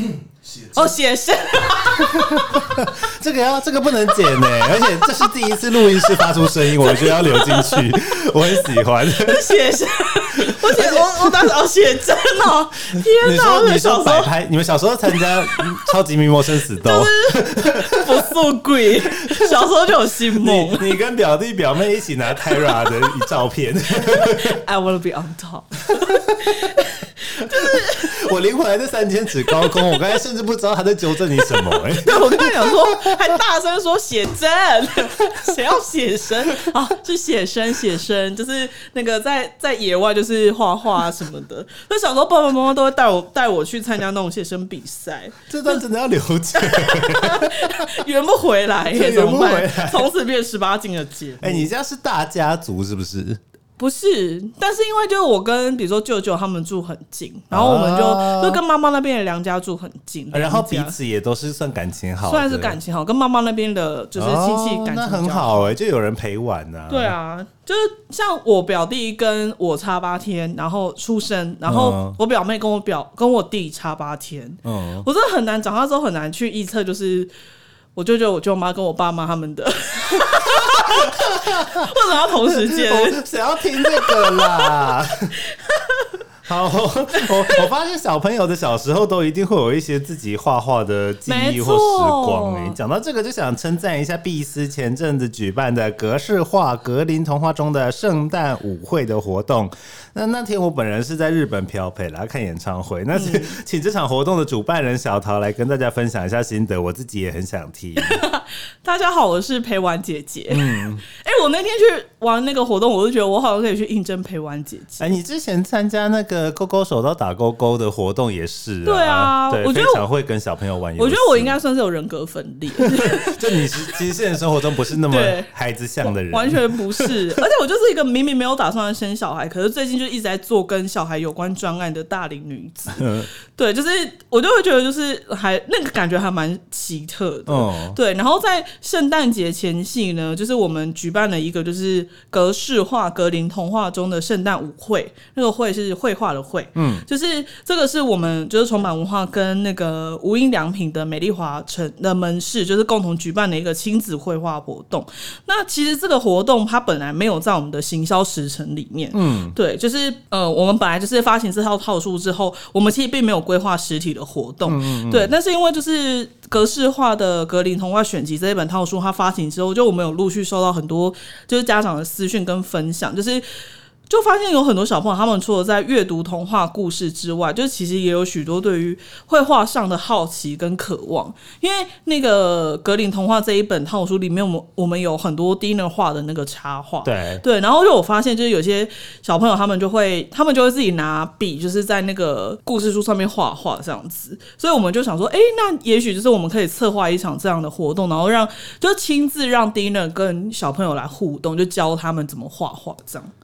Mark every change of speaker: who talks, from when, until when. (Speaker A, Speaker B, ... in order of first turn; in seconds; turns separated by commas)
Speaker A: 0.6-3.0, Speaker B: 2.0-9.6, Speaker A: 4.2-7.9, Speaker A: 8.6-14.3, Speaker B: 10.4-11.3, Speaker B: 13.0-18.3, Speaker A: 15.1-15.9, Speaker A: 16.8-20.9, Speaker B: 20.4-24.6, Speaker A: 22.6-22.9, Speaker A: 24.1-28.1, Speaker B: 26.0-26.8, Speaker B: 27.4-33.2, Speaker A: 29.5-30.1, Speaker A: 31.4-45.9, Speaker B: 45.5-48.0, Speaker A: 46.5-51.7, Speaker B: 48.9-50.1, Speaker B: 51.4-53.4, Speaker A: 53.8-61.0, Speaker B: 57.5-58.6, Speaker B: 60.3-62.8, Speaker A: 62.3-65.7, Speaker B: 64.2-67.2, Speaker A: 66.9-77.3, Speaker B: 71.7-72.2, Speaker B: 74.7-75.1, Speaker A: 78.0-84.9, Speaker B: 80.7-81.9, Speaker B: 82.5-85.3, Speaker A: 85.5-86.2, Speaker B: 86.5-108.2, Speaker A: 91.2-92.8, Speaker A: 103.1-103.6, Speaker A: 108.0-115.2, Speaker B: 110.5-111.0, Speaker B: 115.0-121.6, Speaker A: 118.8-120.0, Speaker A: 121.0-123.9, Speaker B: 122.8-127.2, Speaker A: 125.1-125.5, Speaker A: 126.0-173.4, Speaker B: 132.9-133.3, Speaker B: 137.5-138.0, Speaker B: 146.8-147.1, Speaker B: 159.1-159.6, Speaker B: 164.7-165.3, Speaker A: 174.1-203.3, Speaker B: 187.0-187.4